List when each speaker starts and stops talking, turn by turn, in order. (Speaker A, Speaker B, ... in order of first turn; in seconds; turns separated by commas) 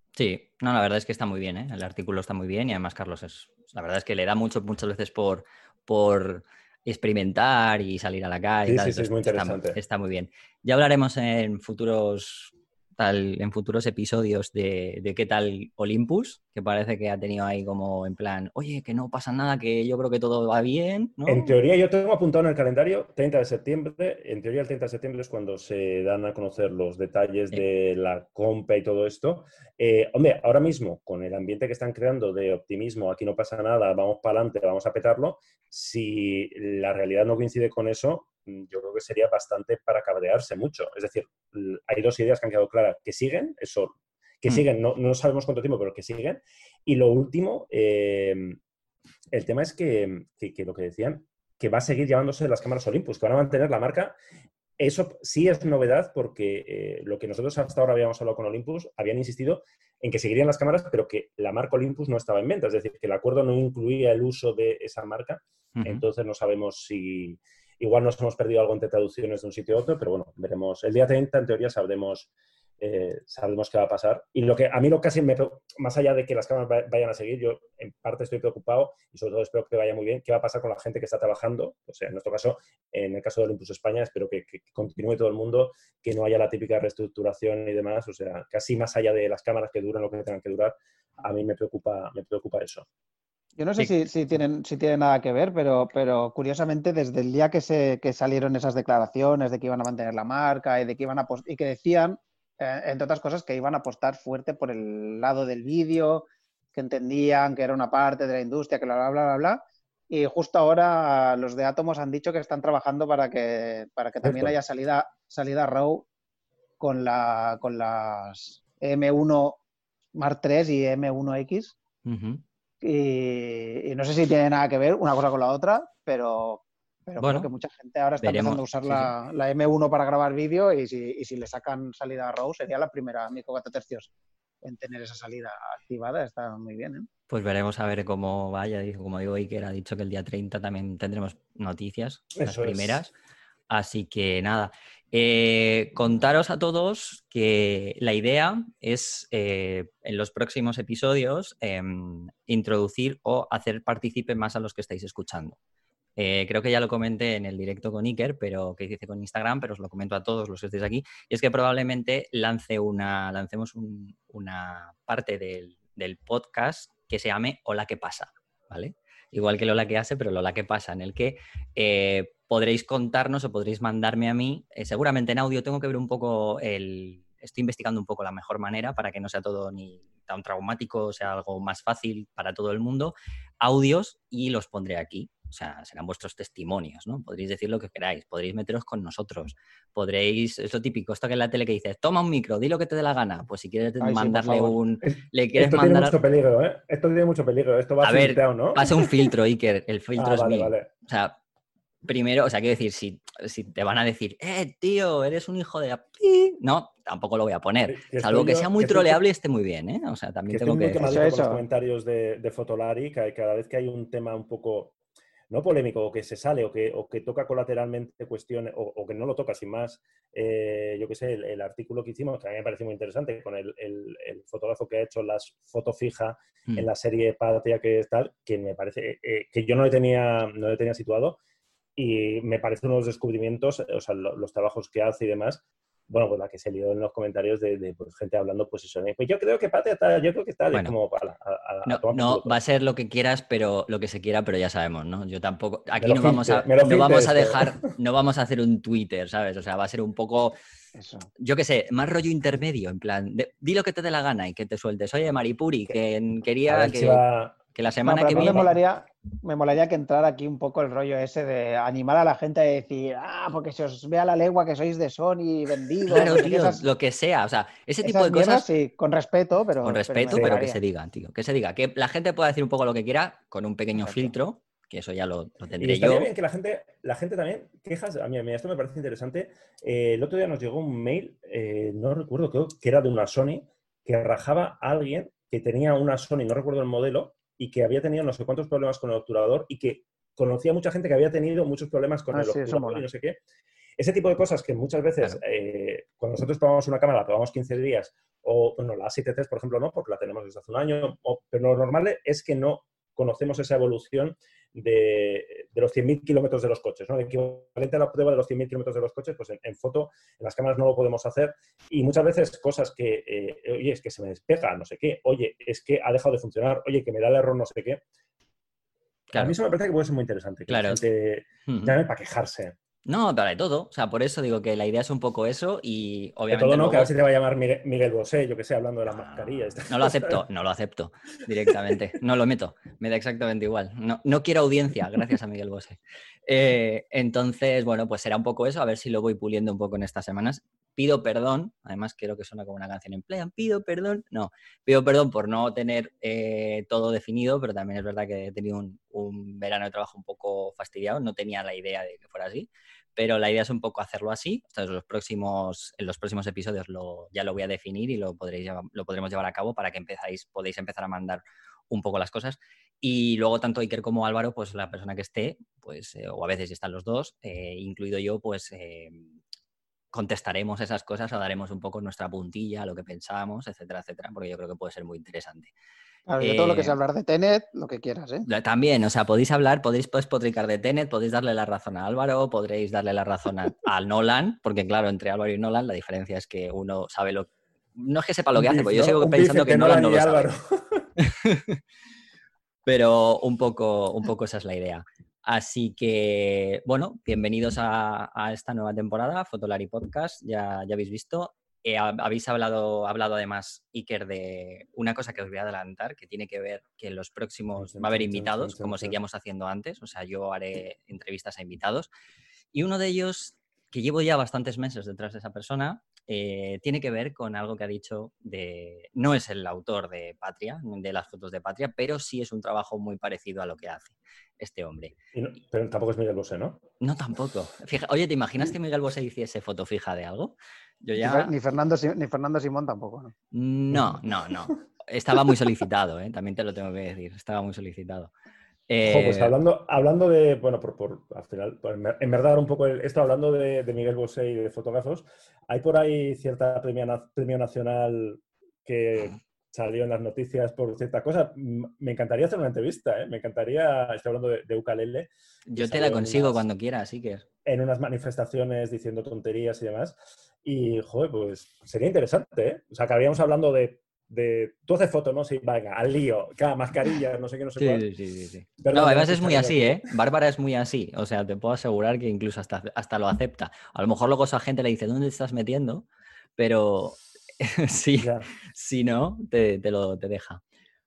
Speaker A: 0.1-21.6, Speaker B: 8.6-9.8, Speaker B: 21.2-48.6, Speaker B: 49.3-54.2, Speaker B: 54.8-92.9, Speaker A: 65.7-66.0, Speaker C: 93.6-116.1, Speaker B: 114.2-114.6, Speaker C: 116.8-119.6, Speaker C: 120.1-121.8, Speaker A: 122.0-122.4, Speaker C: 122.8-134.1, Speaker A: 127.2-127.5, Speaker A: 128.2-129.1, Speaker C: 134.6-137.1, Speaker A: 137.3-143.1, Speaker B: 142.4-143.0, Speaker A: 143.7-155.6, Speaker A: 156.2-196.2, Speaker C: 194.0-194.8, Speaker B: 195.0-198.9, Speaker A: 198.0-201.4, Speaker B: 200.2-200.9, Speaker A: 202.1-211.1, Speaker B: 207.9-209.2, Speaker B: 210.5-214.9, Speaker C: 211.0-211.6, Speaker B: 215.5-231.4, Speaker B: 231.9-242.6, Speaker A: 241.9-250.6, Speaker B: 246.0-247.9, Speaker C: 250.9-251.3, Speaker A: 251.4-257.2, Speaker B: 256.7-257.6, Speaker A: 257.7-258.7, Speaker C: 258.0-266.8, Speaker B: 258.3-258.7, Speaker A: 266.1-268.7, Speaker C: 268.0-270.8, Speaker A: 269.8-276.3, Speaker B: 270.3-270.6, Speaker B: 275.8-293.4, Speaker C: 292.3-293.1, Speaker B: 294.0-318.0, Speaker B: 319.3-322.8, Speaker A: 320.7-321.0, Speaker A: 321.7-321.9, Speaker A: 323.1-327.1, Speaker B: 326.5-330.4, Speaker A: 329.1-369.4, Speaker A: 370.1-375.7, Speaker C: 376.3-378.5, Speaker A: 376.4-376.9, Speaker A: 378.5-390.5, Speaker B: 388.6-391.1, Speaker A: 391.2-391.8, Speaker A: 392.9-412.1, Speaker B: 407.8-409.2, Speaker A: 412.7-425.1, Speaker B: 425.3-426.8, Speaker A: 427.0-431.5, Speaker C: 431.2-433.3, Speaker A: 433.5-438.3, Speaker B: 433.9-434.2, Speaker A: 438.9-439.5, Speaker B: 439.0-456.6, Speaker A: 455.7-457.4, Speaker B: 457.6-468.1, Speaker A: 467.8-476.1, Speaker B: 468.8-470.0, Speaker A: 476.6-480.6, Speaker B: 478.2-478.5